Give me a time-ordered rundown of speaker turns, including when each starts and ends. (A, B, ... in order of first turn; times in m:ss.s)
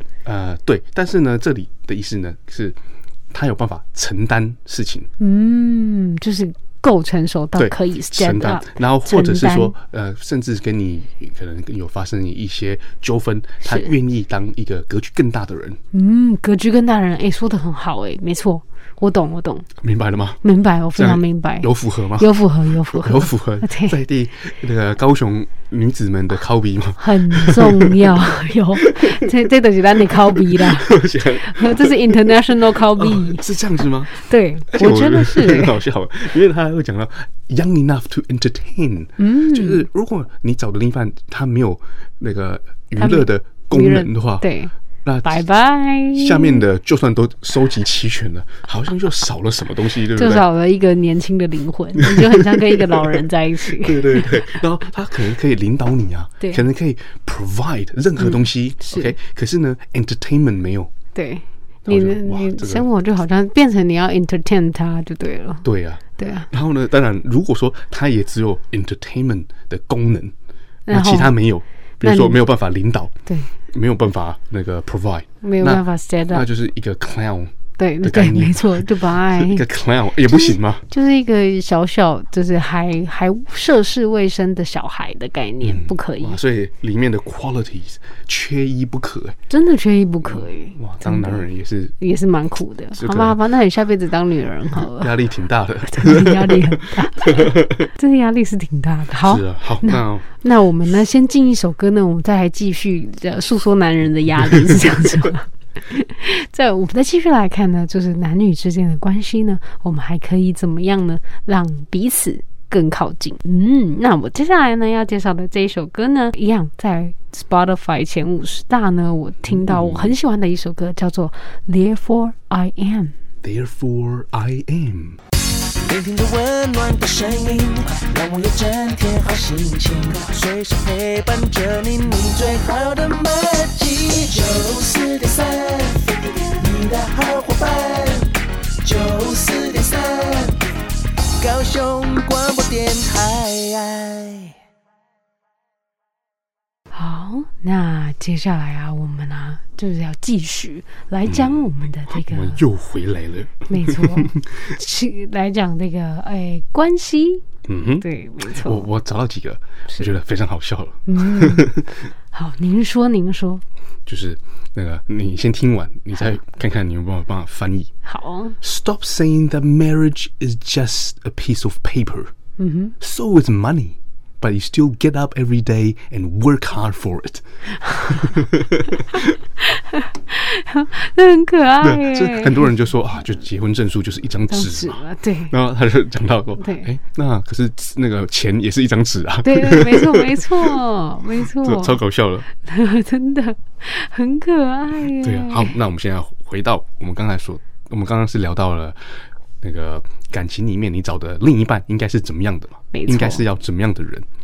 0:00.2-0:02.8 A
0:03.3-0:05.1 A
0:05.2-0:09.7 B
0:07.6-0:15.8 A
0:13.6-0:13.9 B
0:15.9-0:19.7 B
0:19.8-0:20.4 A
0:20.4-0:24.0 B
0:21.0-0:28.3 A
0:27.0-0:33.5 B
0:28.8-0:29.3 A
0:30.1-0:34.2 A
0:34.1-0:35.8 B
0:34.7-0:44.5 A
0:39.2-0:39.8 B
0:43.0-0:44.7 B
0:45.0-0:45.4 A
0:45.2-0:46.6 B
0:46.1-0:50.4 A
0:50.2-0:54.3 B
0:52.0-1:00.9 A
0:58.2-0:59.1 B
1:01.2-1:05.6 B
1:01.8-1:02.8 A
1:05.6-1:10.3 A
1:06.2-1:06.5 B
1:10.9-1:11.4 B
1:10.9-1:13.1 A
1:12.0-1:12.4 B
1:13.7-1:20.8 A
1:15.4-1:16.5 B
1:17.8-1:19.6 B
1:20.3-1:26.4 B
1:25.6-1:29.4 A
1:29.5-1:31.5 B
1:30.2-1:32.0 A
1:32.0-1:35.1 B
1:33.0-1:33.4 A
1:34.8-1:37.9 A
1:35.9-2:03.2 B
1:39.2-1:40.3 A
1:59.5-2:00.2 A
2:03.4-2:05.2 A
2:05.8-2:20.7 C
2:21.4-2:24.6 C
2:26.9-2:32.6 B
2:31.3-2:34.7 A
2:33.7-2:38.9 B
2:37.7-2:41.9 A
2:41.1-2:41.7 B
2:42.3-2:43.6 B
2:44.1-2:47.9 A
2:48.0-2:48.6 B
2:48.6-2:52.3 A
2:52.6-2:53.0 B
2:53.0-2:59.4 A
2:57.8-2:58.3 B
2:59.6-3:02.7 B
3:01.8-3:10.8 A
3:04.5-3:05.5 B
3:06.6-3:06.9 B
3:09.4-3:12.0 B
3:11.4-3:12.5 A
3:12.6-3:15.7 B
3:15.1-3:24.3 A
3:22.9-3:23.4 B